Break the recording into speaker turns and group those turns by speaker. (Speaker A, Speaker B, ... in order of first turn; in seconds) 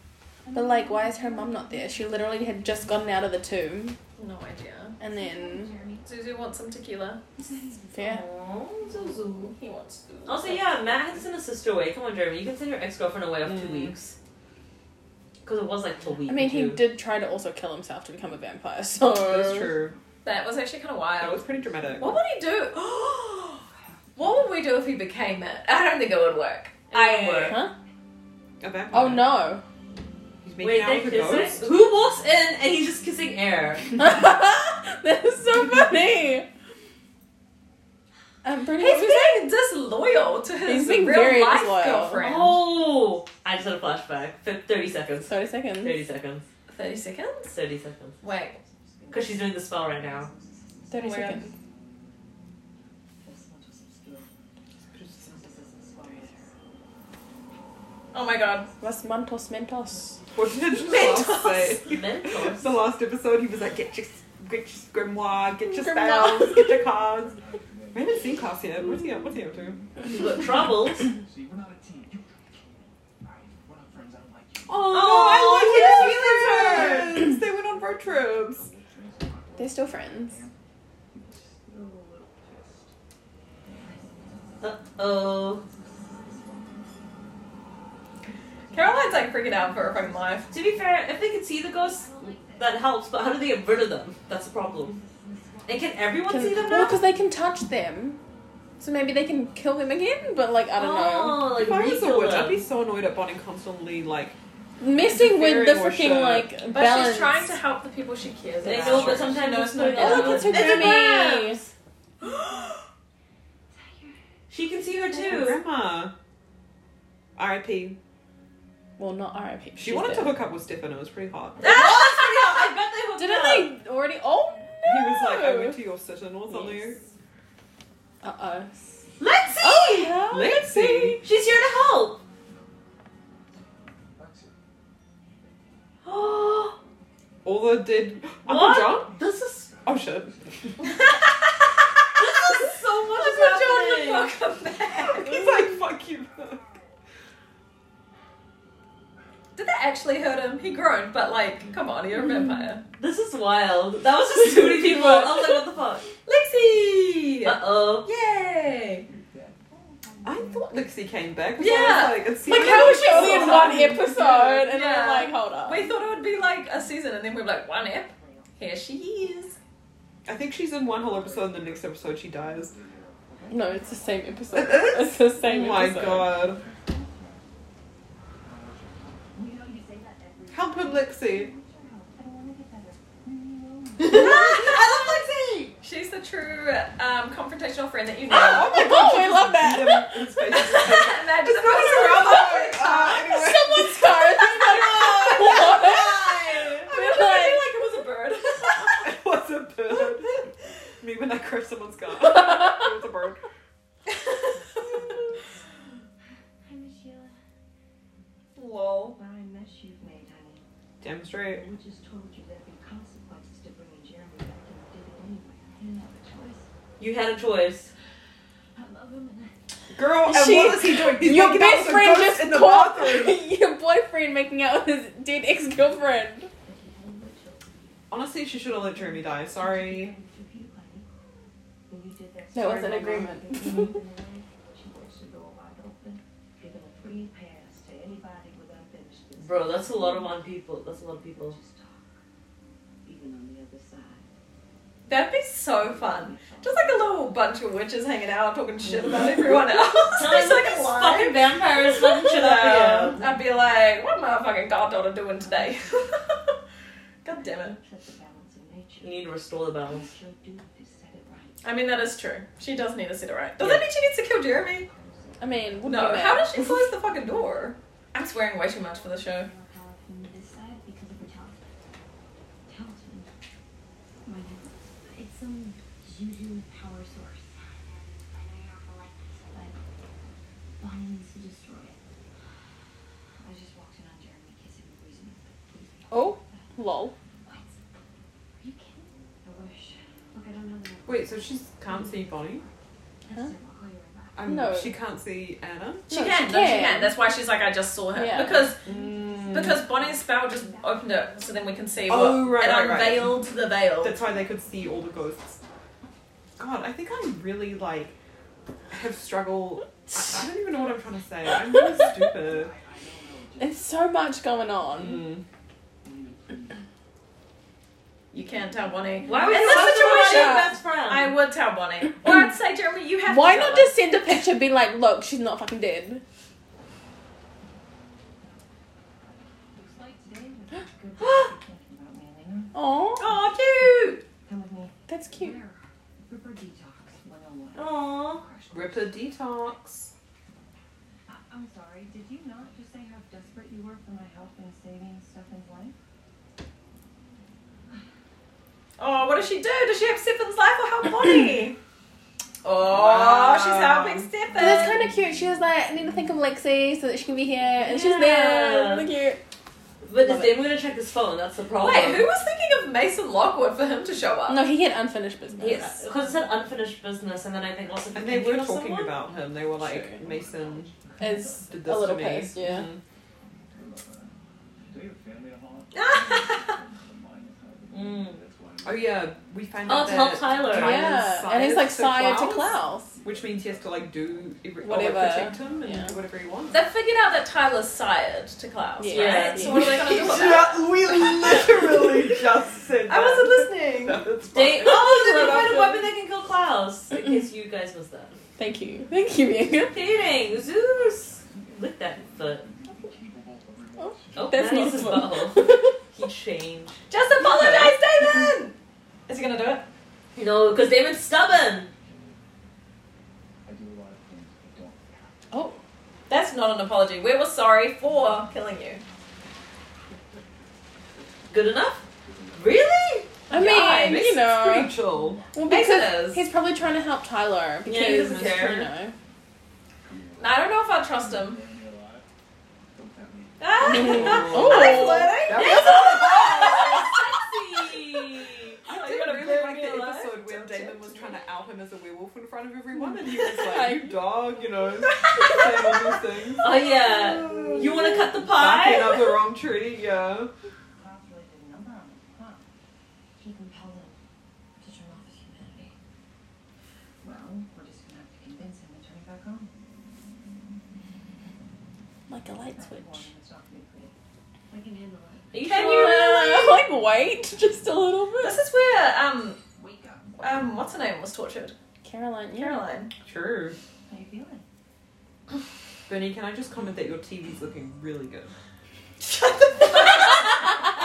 Speaker A: 0.5-3.2, 5.0-6.1, 7.4-8.2, 8.8-9.1, 48.2-51.3, 53.2-54.3, 55.1-56.9, 83.8-87.1, 88.7-90.9, 91.8-93.1, 94.7-96.9, 113.7-115.6, 159.7-161.3, 165.8-166.7, 167.7-168.6, 173.3-175.1, 175.7-177.5, 179.3-184.2, 204.3-205.9, 206.6-207.4, 209.0-210.6, 211.3-216.7, 218.7-219.5, 226.6-228.0, 228.7-231.1, 231.9-240.4, 241.2-242.1, 243.0-244.2, 246.2-246.8, 255.4-255.8, 257.4-259.3, 259.8-261.6, 264.8-266.1, 267.1-267.7, 268.6-271.6, 272.6-273.3, 274.2-279.8, 280.8-282.0, 283.4-286.7, 287.4-287.8, 288.6-292.7, 293.2-294.5, 298.9-302.3, 329.7-332.8, 334.4-339.1, 341.3-345.9, 450.9-452.7, 453.4-454.2, 454.8-455.9, 457.2-459.7, 462.6-464.1, 464.7-465.6, 469.8-470.4, 474.1-474.6
Speaker B: 0.5-4.0, 5.0-5.8, 7.9-8.2, 16.2-19.7, 27.4-27.7, 28.9-29.6, 34.0-36.5, 38.4-39.5, 40.6-42.2, 45.3-46.0, 50.9-51.5, 58.8-60.2, 65.6-66.9, 79.5-80.4, 96.3-98.2, 98.8-101.5, 104.8-107.6, 109.9-111.6, 119.0-120.4, 123.2-125.8, 128.2-129.0, 129.6-130.5, 154.3-155.6, 162.4-165.8, 173.5-176.3, 188.3-190.2, 193.1-196.1, 196.9-197.7, 220.2-226.5, 232.5-234.0, 265.4-266.6, 286.1-287.1, 294.4-294.9, 296.1-297.2, 298.1-298.7, 313.6-315.3, 320.0-320.8, 323.2-326.2, 332.7-333.3, 335.1-335.6, 354.5-359.4, 364.5-366.1, 369.8-370.1, 371.2-372.9, 380.7-383.2, 384.8-386.2, 389.0-389.9, 398.6-399.9, 404.0-406.0, 415.5-415.8, 423.5-425.0, 425.5-429.1, 433.9-435.4, 443.4-444.2, 462.3-463.3, 465.7-468.6, 472.0-472.8
Speaker C: 4.2-5.0, 6.0-7.2, 9.4-10.8, 20.2-23.6, 24.1-27.6, 38.7-42.7, 46.7-47.5, 48.2-48.6, 51.0-51.4, 58.1-58.7, 60.8-61.8, 88.7-90.5, 106.7-111.2, 121.6-122.7, 140.8-145.6, 149.6-152.8, 156.2-159.1, 161.6-169.5, 184.1-185.1, 185.8-188.8, 190.4-193.5, 194.5-199.1, 245.1-256.5, 257.2-257.8, 261.6-264.9, 265.9-269.5, 296.1-298.9, 299.5-304.2, 318.3-323.9, 333.2-334.2, 349.0-351.8, 352.6-355.1, 361.8-364.6, 375.9-376.8, 386.7-391.6, 393.1-394.3, 407.1-409.9, 416.3-419.0, 423.5-424.3, 425.7-426.4, 430.4-431.6, 433.6-437.2, 438.8-441.4, 445.1-446.2, 465.5-466.8, 468.4-469.6, 470.4-471.8, 472.5-473.1, 479.2-480.9
Speaker D: 8.0-9.5, 10.2-14.2, 15.4-16.8, 26.9-27.6, 30.6-34.1, 42.2-46.4, 47.5-48.2, 49.1-50.3, 61.8-62.7, 70.1-71.1, 74.9-77.2, 84.6-85.6, 90.5-95.0, 95.7-97.0, 100.8-102.6, 108.6-111.7, 114.5-115.6, 121.6-123.7, 129.2-132.2, 136.0-136.8, 138.4-139.7, 142.2-144.3, 153.0-156.1, 157.4-158.1, 217.0-217.9, 239.4-241.6, 250.1-253.3, 259.0-260.1, 263.6-263.9, 319.2-321.4, 337.7-338.4, 357.8-359.1, 360.0-362.3, 365.6-369.2, 377.9-378.4, 379.9-381.2, 389.1-389.9, 394.5-398.4, 399.7-402.7, 404.3-407.9, 410.3-411.9, 421.5-423.3, 435.5-438.8, 446.6-449.4, 465.5-466.6
Speaker E: 13.4-13.9, 19.2-20.0, 21.2-22.2, 28.6-29.3, 30.4-31.7, 54.9-55.4, 60.3-67.4, 67.9-69.8, 74.7-78.7, 101.5-104.4, 105.0-106.5, 108.8-109.2, 115.3-116.1, 117.3-118.0, 119.8-121.6, 124.8-127.0, 130.3-131.2, 137.4-139.1, 139.8-140.6, 145.0-146.6, 160.2-164.6, 170.2-172.8, 174.5-176.6, 180.5-181.5, 184.0-185.7, 188.3-196.9, 198.8-200.4, 201.0-203.4, 208.6-209.2, 211.0-211.7, 219.9-223.4, 228.1-230.1, 291.1-292.6, 294.3-296.1, 298.8-299.8, 302.1-303.5, 304.0-305.6, 306.6-308.2, 308.9-312.7, 315.0-315.4, 338.7-340.1, 352.8-354.3, 368.1-370.9, 371.7-373.0, 378.8-386.8, 389.7-396.1, 423.5-425.4, 427.9-428.9, 433.8-437.1, 438.9-450.5, 473.2-473.8, 476.1-478.5
Speaker F: 51.5-52.0, 66.7-80.6, 81.1-82.9, 85.6-86.8, 134.1-134.6, 159.1-159.7, 170.8-174.2, 178.4-179.6, 312.3-313.8, 316.0-316.8, 369.8-372.0, 373.6-379.4, 383.1-386.1, 400.2-405.1, 411.9-412.4, 413.6-415.8, 422.2-422.9, 425.2-425.6, 430.0-432.3, 432.9-433.9, 469.8-470.4